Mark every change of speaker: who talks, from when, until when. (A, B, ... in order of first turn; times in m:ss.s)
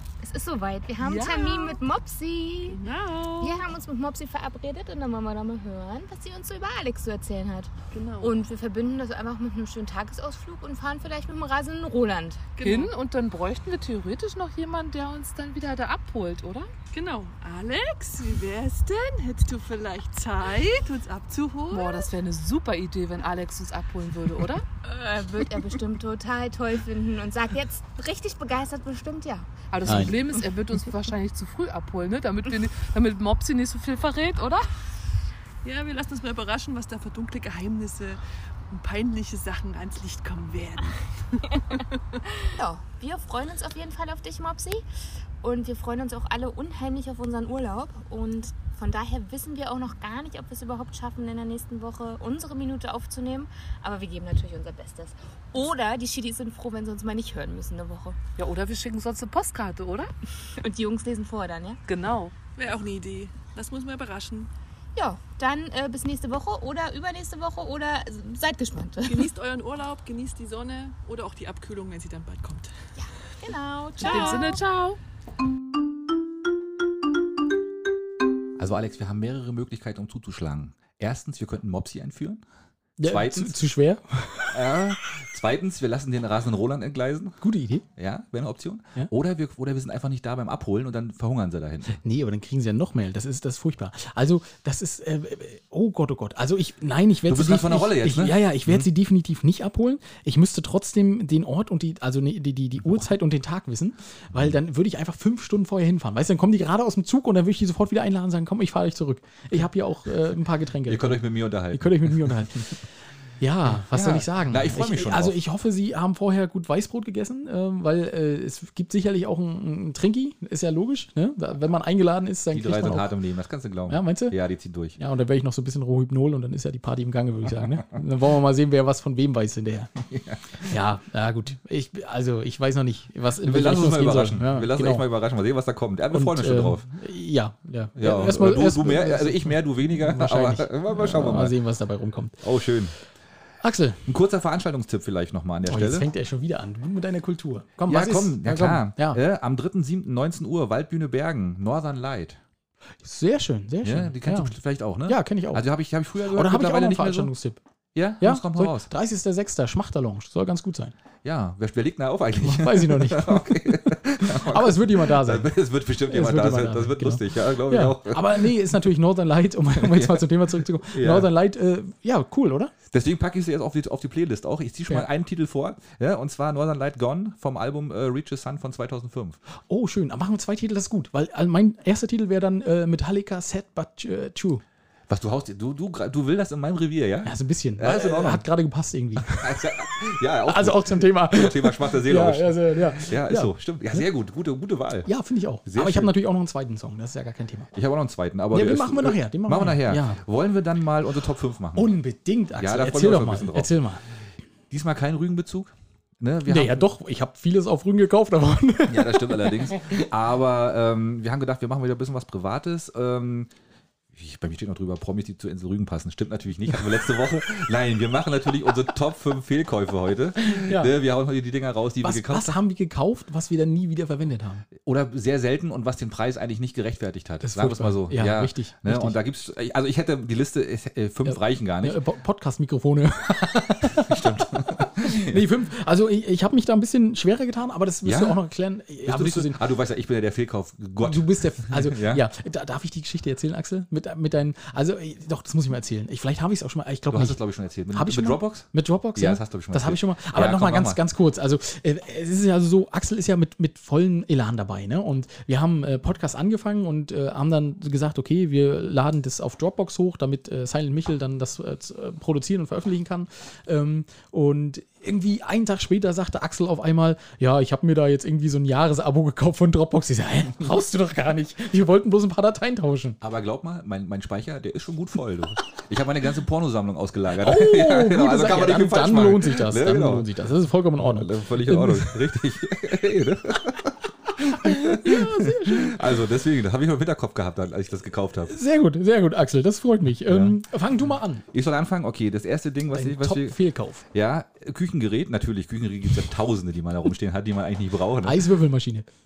0:00.2-0:02.8 A
0:01.0-0:01.8 B
0:02.7-0:03.6 B
0:03.4-0:07.7 A
0:07.9-0:08.4 B
0:08.2-0:12.4 A
0:12.6-0:12.9 B
0:12.6-0:16.7 C
0:16.9-0:22.1 B
0:21.7-0:24.6 C
0:24.8-0:30.2 A
0:29.7-0:34.7 C
0:29.8-0:30.2 D
0:35.6-0:42.2 B
0:42.5-0:44.8 A
0:45.4-0:58.2 A
0:58.4-1:00.1 C
1:00.6-1:01.8 A
1:01.9-1:02.3 C
1:02.6-1:04.5 B
1:05.0-1:09.3 A
1:09.0-1:12.7 B
1:13.0-1:14.6 A
1:14.0-1:15.0 C
1:14.0-1:14.4 B
1:18.6-1:22.4 E
1:23.0-1:24.8 D
1:23.0-1:23.6 E
1:24.5-1:27.4 E
1:27.4-1:27.8 D
1:28.0-1:32.0 E
1:32.0-1:52.9 D
1:37.3-1:38.9 E
1:50.9-1:52.5 E
1:53.4-2:03.1 D
1:53.7-1:55.4 E
2:02.5-2:05.0 E
2:03.9-2:04.4 D
2:05.0-2:09.9 D
2:10.0-2:10.4 E
2:10.6-2:15.0 D
2:13.4-2:16.9 E
2:16.1-2:22.4 D
2:18.0-2:21.6 E
2:22.4-2:22.9 E
2:23.6-2:24.0 D
2:24.1-2:26.1 E
2:25.7-2:29.2 D
2:27.9-2:32.4 E
2:33.0-2:34.5 D
2:33.8-2:37.3 E
2:35.1-2:35.6 D
2:36.3-2:37.6 D
2:38.0-2:38.9 E
2:38.2-2:41.0 D
2:41.2-2:48.6 E
2:42.4-2:45.5 D
2:46.1-2:52.7 D
2:49.7-2:51.3 E
2:52.9-2:59.4 E
2:59.7-3:04.6 D
3:05.1-3:08.4 E
3:07.2-3:09.8 D
3:09.2-3:15.1 E
3:10.4-3:14.0 D
3:15.0-3:17.7 D
3:15.7-3:16.2 E
3:17.7-3:21.9 E
3:18.5-3:20.2 D
3:21.8-3:24.0 D
3:22.6-3:23.8 E
3:24.7-3:26.9 E
3:26.5-3:30.0 D
3:28.9-3:33.5 E
3:34.1-3:42.6 E
3:40.4-3:40.9 D
3:42.0-3:44.7 D
3:44.8-3:52.0 E
3:47.4-3:49.2 D
3:51.3-3:59.6 D
3:53.9-3:55.4 E
3:58.0-3:58.4 E
3:59.0-4:02.2 E
4:01.0-4:07.4 D
4:07.1-4:11.0 E
4:07.9-4:33.2 D
4:33.2-4:40.3 E
4:37.4-4:42.2 D
4:41.0-4:48.6 E
4:44.4-4:46.1 D
4:48.5-4:51.4 D
4:50.3-4:50.6 E
4:51.5-4:53.6 E
4:52.9-4:54.0 D
4:54.1-4:58.5 E
4:58.2-4:59.1 D